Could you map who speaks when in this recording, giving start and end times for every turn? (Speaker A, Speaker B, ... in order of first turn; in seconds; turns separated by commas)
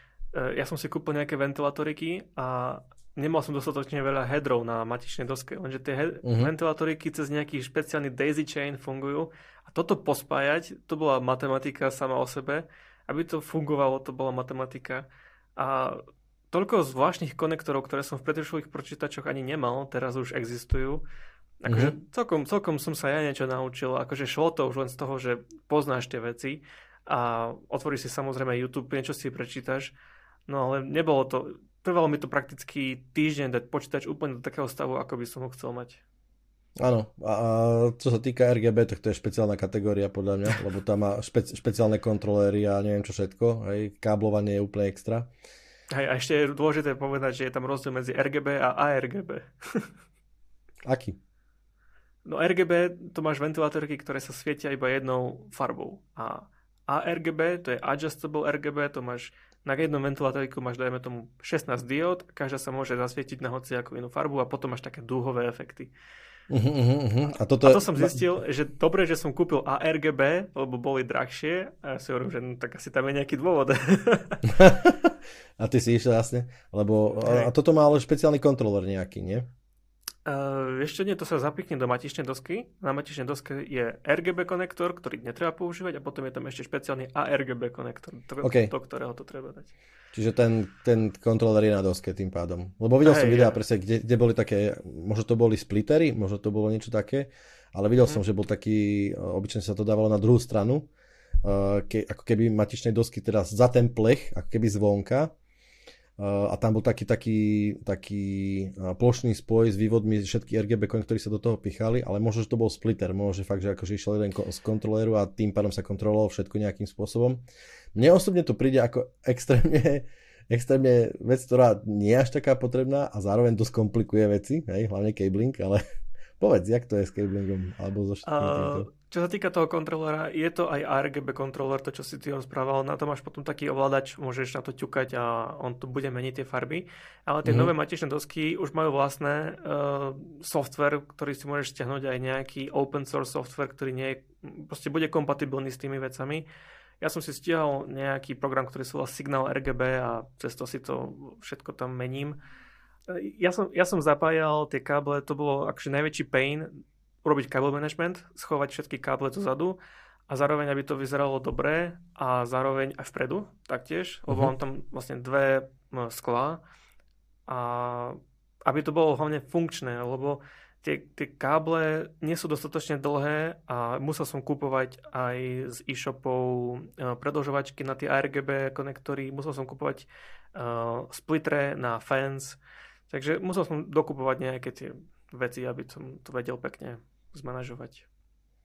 Speaker A: 0.3-21.0, Speaker B: 6.2-6.5, Speaker A: 21.6-29.9, Speaker B: 21.7-22.0, Speaker A: 30.5-36.0, Speaker B: 36.8-45.3, Speaker A: 45.9-49.9, Speaker B: 50.9-51.2, Speaker A: 52.2-65.9, Speaker B: 66.5-68.2, Speaker A: 67.6-74.5, Speaker B: 74.5-79.5, Speaker A: 77.2-77.5, Speaker A: 80.2-89.7, Speaker B: 88.4-88.7, Speaker B: 90.1-100.9, Speaker A: 93.0-93.6, Speaker B: 101.4-105.3, Speaker B: 106.2-117.4, Speaker B: 118.0-125.8, Speaker B: 126.4-128.9, Speaker A: 128.2-146.4, Speaker B: 137.4-137.7, Speaker A: 147.0-152.4, Speaker A: 153.1-156.7, Speaker A: 157.2-159.8, Speaker A: 160.3-166.6, Speaker A: 167.5-182.6, Speaker A: 183.1-188.1